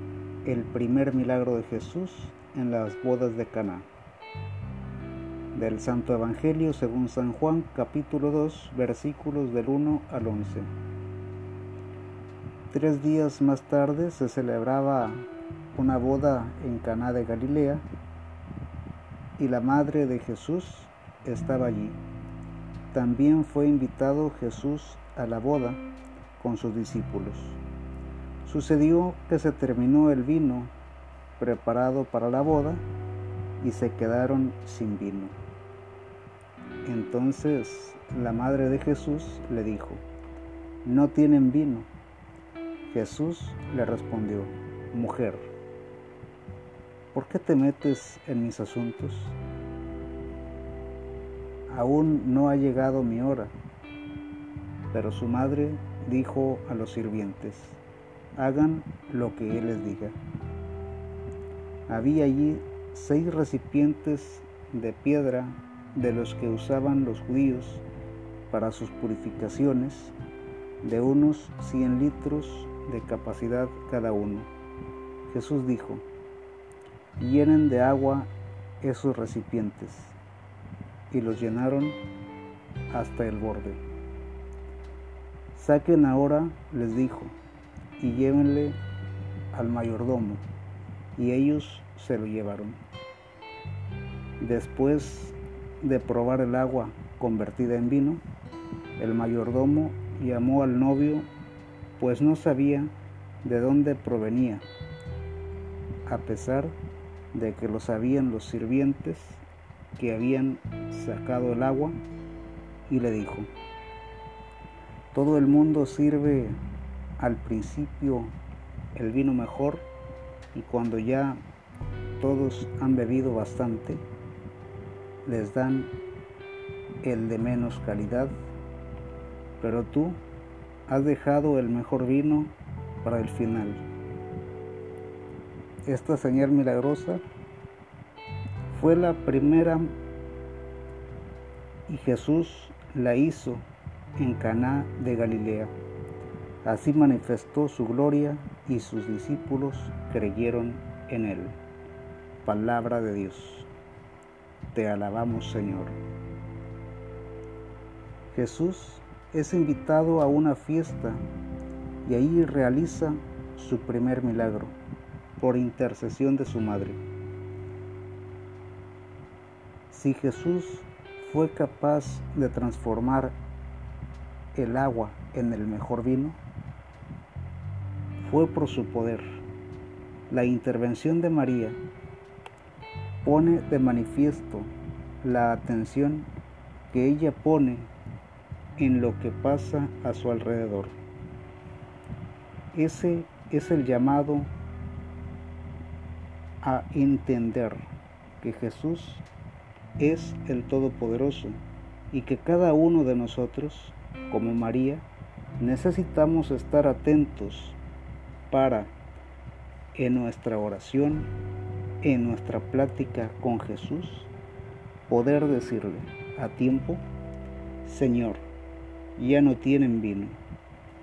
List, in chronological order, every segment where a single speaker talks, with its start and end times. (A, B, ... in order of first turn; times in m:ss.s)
0:00.4-0:03.9 A
0:05.5-0:10.7 A
0:12.7-0:17.8 A
0:19.4-0:22.0 A
0:22.9-0:25.8 A
0:26.4-0:27.6 A
0:28.4-0:30.7 A
0:31.4-0:32.8 A
0:33.6-0:35.4 A
0:36.8-0:40.0 A
0:40.8-0:41.9 A
0:42.9-0:45.5 A
0:47.1-0:49.4 A
0:51.7-0:53.5 A
0:54.9-0:57.8 A
0:58.4-1:00.2 A
1:01.9-1:07.8 A
1:08.5-1:10.1 A
1:10.8-1:14.5 A
1:15.3-1:16.0 A
1:17.2-1:18.3 A
1:18.8-1:20.2 A
1:21.1-1:22.0 A
1:22.9-1:23.8 A
1:25.5-1:27.4 A
1:28.0-1:28.8 A
1:29.5-1:30.4 A
1:31.2-1:32.8 A
1:34.4-1:38.2 A
1:39.0-1:41.3 A
1:42.0-1:42.9 A
1:43.4-1:44.6 A
1:46.0-1:46.7 A
1:47.3-1:49.4 A
1:50.0-1:52.0 A
1:52.9-1:53.5 A
1:55.1-1:56.6 A
1:57.2-1:58.3 A
1:58.9-1:59.8 A
2:00.5-2:01.4 A
2:02.2-2:04.0 A
2:05.2-2:05.9 A
2:07.0-2:08.3 A
2:09.6-2:10.2 A
2:10.9-2:13.8 A
2:15.8-2:17.2 A
2:18.7-2:19.9 A
2:21.9-2:23.6 A
2:24.2-2:25.7 A
2:26.6-2:31.6 A
2:32.4-2:33.7 A
2:34.7-2:36.0 A
2:38.3-2:41.2 A
2:42.0-2:44.7 A
2:45.4-2:47.0 A
2:49.9-2:53.3 A
2:54.5-2:56.4 A
2:58.2-2:59.4 A
3:00.3-3:01.8 A
3:03.2-3:04.7 A
3:05.2-3:06.3 A
3:06.9-3:07.9 A
3:08.8-3:10.9 A
3:12.7-3:14.5 A
3:16.6-3:17.8 A
3:18.4-3:19.2 A
3:20.0-3:21.6 A
3:22.1-3:25.0 A
3:25.6-3:27.8 A
3:28.5-3:28.9 A
3:29.9-3:31.3 A
3:32.0-3:34.3 A
3:35.1-3:37.0 A
3:37.8-3:38.4 A
3:39.2-3:40.4 A